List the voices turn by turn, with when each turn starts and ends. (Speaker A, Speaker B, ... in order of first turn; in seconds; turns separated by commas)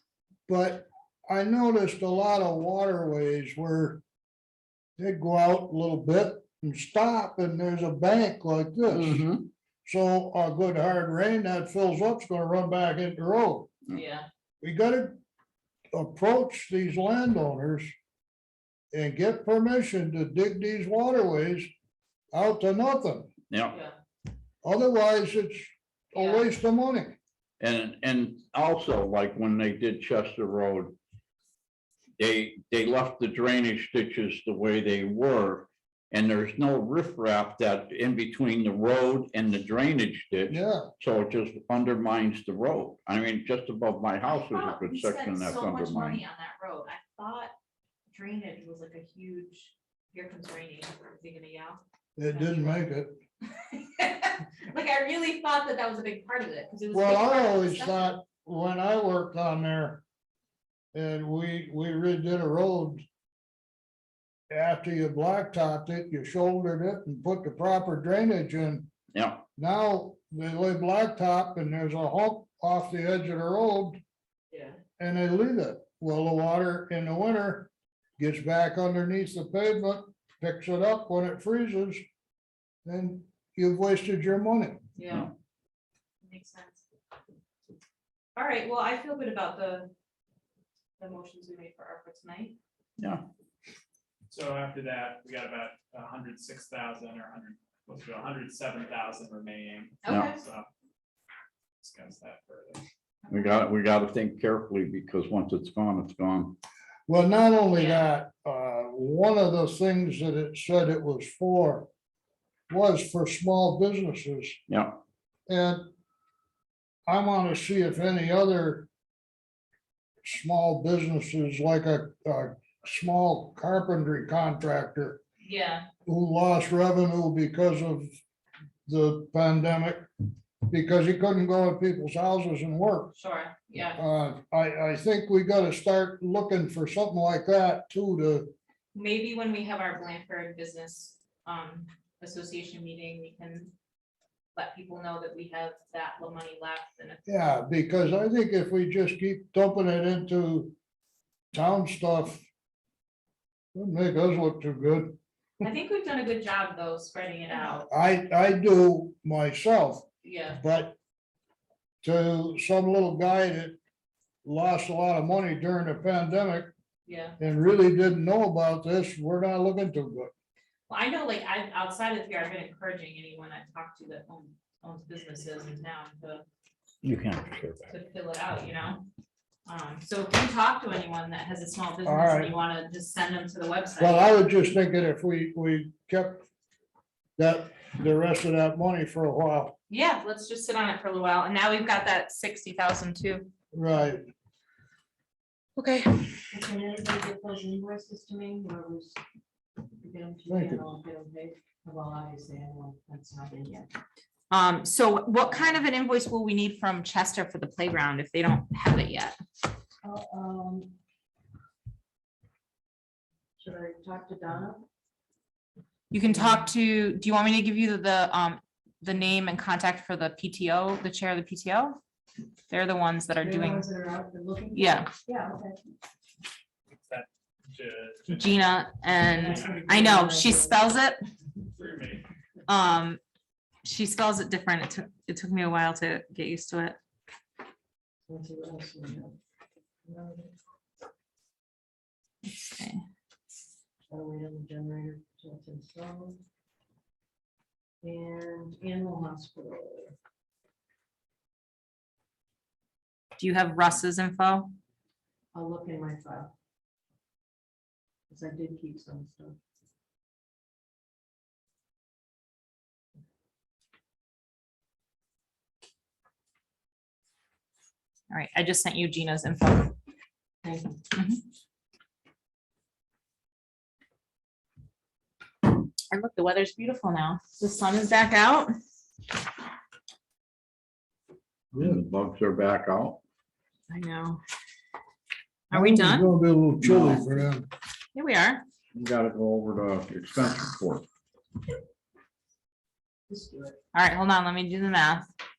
Speaker A: 0.5-4.0, Speaker A: 5.0-9.2, Speaker B: 8.9-9.5, Speaker A: 9.8-13.7, Speaker C: 13.9-14.3, Speaker A: 14.6-15.2, Speaker A: 15.9-17.9, Speaker A: 18.9-21.7, Speaker A: 22.3-23.3, Speaker B: 23.5-23.8, Speaker C: 23.7-23.9, Speaker A: 24.6-27.2, Speaker C: 26.2-26.4, Speaker B: 27.6-30.9, Speaker B: 32.2-46.2, Speaker A: 40.5-40.9, Speaker C: 44.5-47.5, Speaker C: 48.1-52.8, Speaker A: 52.2-53.1, Speaker C: 53.5-58.2, Speaker A: 56.9-60.0, Speaker A: 60.9-63.0, Speaker A: 64.5-68.9, Speaker B: 69.1-69.5, Speaker A: 69.6-74.0, Speaker C: 74.5-74.8, Speaker A: 75.0-82.0, Speaker A: 82.8-84.8, Speaker C: 85.0-85.3, Speaker C: 86.2-86.8, Speaker C: 88.3-89.9, Speaker C: 91.0-92.6, Speaker B: 93.0-93.2, Speaker D: 94.3-100.7, Speaker C: 100.0-100.4, Speaker D: 101.8-102.8, Speaker B: 103.3-106.6, Speaker A: 107.1-111.9, Speaker C: 107.7-108.0, Speaker A: 112.7-114.6, Speaker B: 114.7-115.0, Speaker A: 115.5-115.9, Speaker A: 117.1-118.9, Speaker A: 120.2-125.2, Speaker C: 125.4-125.9, Speaker A: 126.1-128.2, Speaker A: 128.9-130.1, Speaker A: 130.7-133.1, Speaker C: 133.1-134.0, Speaker A: 133.9-138.5, Speaker C: 138.9-143.7, Speaker C: 144.6-147.2, Speaker A: 147.3-150.7, Speaker A: 151.5-152.4, Speaker A: 153.7-155.2, Speaker C: 155.6-157.9, Speaker A: 157.9-160.1, Speaker C: 160.2-160.6, Speaker A: 160.6-161.0, Speaker A: 162.0-163.8, Speaker A: 164.4-166.7, Speaker C: 167.1-167.4, Speaker A: 167.4-170.3, Speaker C: 170.9-176.4, Speaker B: 177.0-177.9, Speaker C: 177.9-179.1, Speaker C: 179.7-184.3, Speaker A: 182.1-182.5, Speaker A: 184.0-186.5, Speaker A: 187.4-189.8, Speaker C: 189.9-193.5, Speaker A: 193.7-194.3, Speaker C: 195.8-196.3, Speaker E: 196.5-199.2, Speaker E: 200.0-203.9, Speaker A: 200.5-200.9, Speaker C: 204.5-209.4, Speaker E: 205.4-205.8, Speaker E: 210.0-210.9, Speaker E: 213.6-214.9, Speaker C: 216.1-222.0, Speaker E: 216.3-216.7, Speaker C: 222.7-223.9, Speaker E: 223.4-225.8, Speaker C: 224.7-225.1, Speaker D: 227.0-228.7, Speaker C: 228.3-231.2, Speaker E: 229.4-230.8, Speaker D: 229.4-230.2, Speaker D: 231.7-232.2, Speaker C: 232.7-233.2, Speaker C: 233.8-237.0, Speaker E: 238.3-239.3, Speaker E: 240.1-240.5, Speaker C: 242.4-243.0, Speaker E: 244.1-246.4, Speaker E: 248.0-250.1, Speaker C: 253.4-254.7, Speaker E: 255.5-256.5, Speaker E: 258.3-259.6, Speaker C: 268.3-269.9, Speaker E: 270.6-271.0, Speaker C: 271.1-271.4, Speaker C: 276.1-278.7, Speaker A: 281.7-282.0, Speaker B: 281.8-283.2, Speaker C: 283.9-284.4, Speaker C: 285.7-286.3, Speaker A: 285.7-287.7, Speaker B: 286.8-287.3, Speaker C: 288.1-288.6, Speaker B: 288.9-291.1, Speaker E: 293.3-293.8, Speaker C: 293.9-295.3